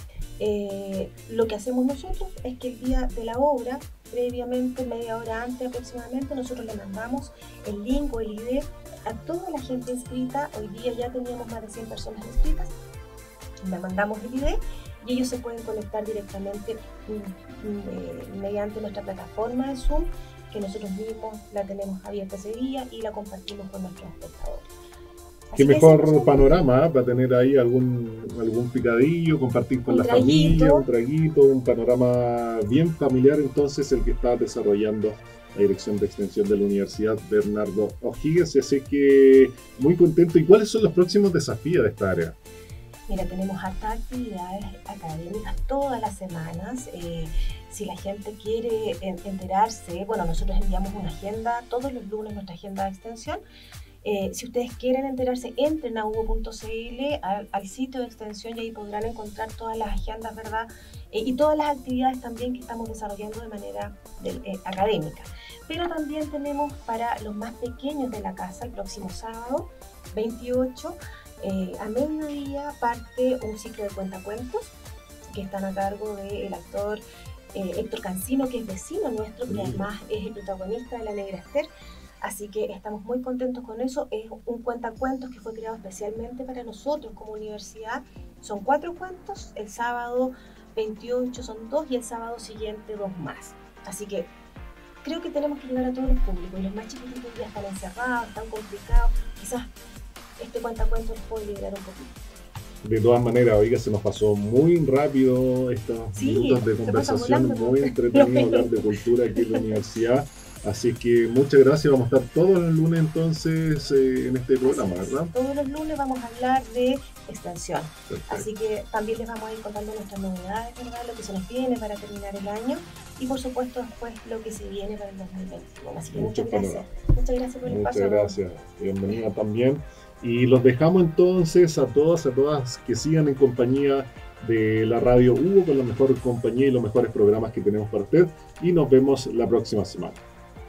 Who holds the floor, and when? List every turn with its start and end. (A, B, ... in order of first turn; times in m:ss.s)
0:00.4-0:12.7 A
0:13.6-0:24.7 A
0:25.5-0:26.5 A
0:25.6-0:42.4 B
0:29.9-0:30.8 A
0:43.1-0:53.4 A
0:54.0-1:14.7 A
1:15.3-1:17.0 A
1:17.5-1:21.7 A
1:19.5-1:19.8 B
1:22.2-1:34.3 A
1:35.0-1:39.7 A
1:40.4-1:42.1 A
1:42.8-1:55.3 B
1:46.2-1:48.8 A
1:49.4-1:49.6 A
1:54.6-2:08.4 A
1:58.1-1:58.5 B
2:06.1-2:06.8 B
2:07.6-2:20.2 B